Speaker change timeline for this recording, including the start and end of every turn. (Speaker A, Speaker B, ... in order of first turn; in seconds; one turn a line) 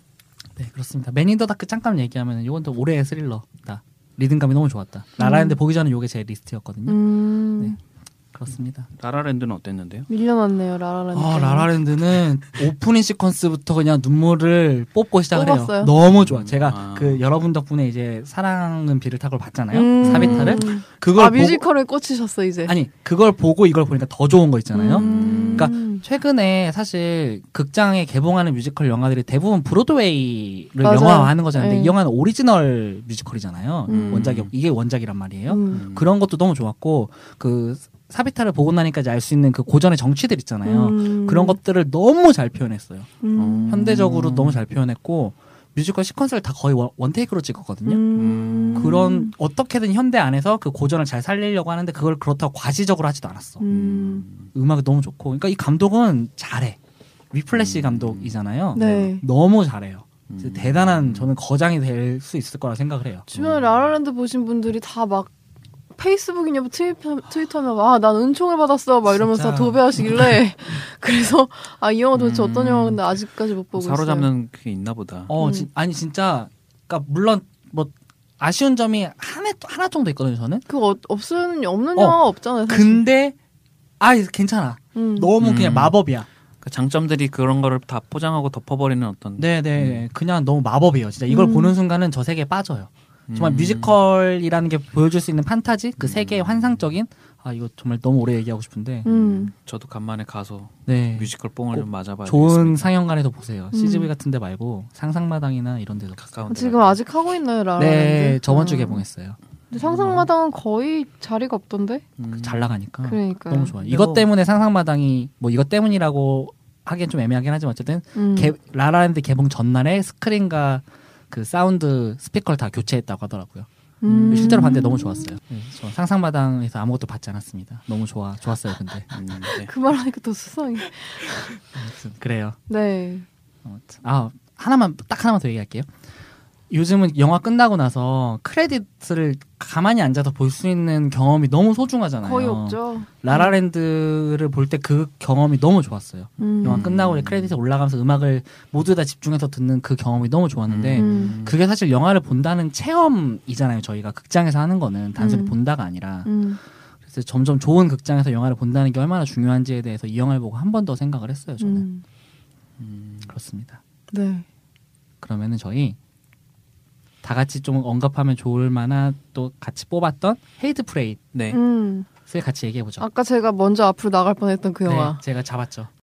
Speaker A: 0.6-7.0
Speaker B: 5.2-5.6
Speaker B: 6.9-7.8
Speaker A: 8.3-8.9
Speaker C: 9.0-10.1
Speaker B: 10.1-11.7
Speaker A: 11.1-21.6
Speaker B: 15.3-15.9
Speaker C: 16.1-17.2
Speaker B: 19.7-22.7
Speaker C: 20.0-20.7
Speaker A: 22.7-43.1
Speaker B: 24.7-26.0
Speaker C: 24.9-25.7
Speaker B: 30.8-31.9
Speaker B: 33.9-34.2
Speaker C: 33.9-34.5
Speaker B: 35.5-35.8
Speaker C: 35.7-36.1
Speaker B: 40.6-41.6
Speaker B: 43.2-43.9
Speaker C: 43.4-44.6
Speaker A: 43.7-48.0
Speaker B: 47.9-49.3
Speaker C: 48.1-49.0
Speaker A: 48.8-53.6
Speaker B: 53.6-54.3
Speaker C: 53.7-54.5
Speaker A: 54.5-56.8
Speaker A: 57.3-63.3
Speaker C: 57.5-59.1
Speaker B: 58.8-59.2
Speaker C: 60.3-61.3
Speaker C: 63.3-63.8
Speaker B: 63.3-65.3
Speaker B: 66.0-74.3
Speaker A: 69.1-70.4
Speaker C: 72.2-73.2
Speaker C: 73.7-75.3
Speaker A: 75.3-80.7
Speaker B: 75.4-75.7
Speaker B: 80.7-83.0
Speaker A: 82.0-83.4
Speaker A: 84.0-86.3
Speaker B: 85.0-85.3
Speaker C: 85.4-86.0
Speaker C: 86.6-90.0
Speaker A: 89.4-99.1
Speaker B: 91.3-91.7
Speaker C: 93.3-93.9
Speaker C: 96.0-96.8
Speaker B: 99.0-99.5
Speaker C: 99.1-102.9
Speaker A: 100.9-106.2
Speaker B: 103.7-104.1
Speaker C: 106.2-107.0
Speaker B: 106.5-109.0
Speaker A: 107.8-109.4
Speaker B: 109.7-112.0
Speaker C: 109.9-110.2
Speaker C: 112.2-112.7
Speaker A: 112.4-123.7
Speaker B: 113.1-113.7
Speaker C: 113.8-114.3
Speaker B: 118.2-118.5
Speaker B: 124.0-125.4
Speaker C: 124.1-124.8
Speaker A: 124.3-129.1
Speaker C: 129.1-129.7
Speaker B: 129.6-131.6
Speaker A: 131.7-132.6
Speaker B: 132.7-133.3
Speaker A: 133.7-135.9
Speaker A: 136.7-156.3
Speaker B: 142.2-143.6
Speaker B: 146.4-146.8
Speaker C: 146.6-147.6
Speaker C: 150.7-151.6
Speaker B: 150.9-151.4
Speaker B: 155.2-155.6
Speaker B: 156.2-156.6
Speaker A: 157.1-161.9
Speaker B: 161.6-162.0
Speaker C: 162.8-163.3
Speaker A: 163.3-163.8
Speaker B: 164.1-164.5
Speaker A: 165.2-166.0
Speaker A: 167.2-171.2
Speaker C: 171.3-171.6
Speaker B: 171.5-172.1
Speaker A: 172.3-173.1
Speaker B: 173.0-175.2
Speaker A: 174.9-175.9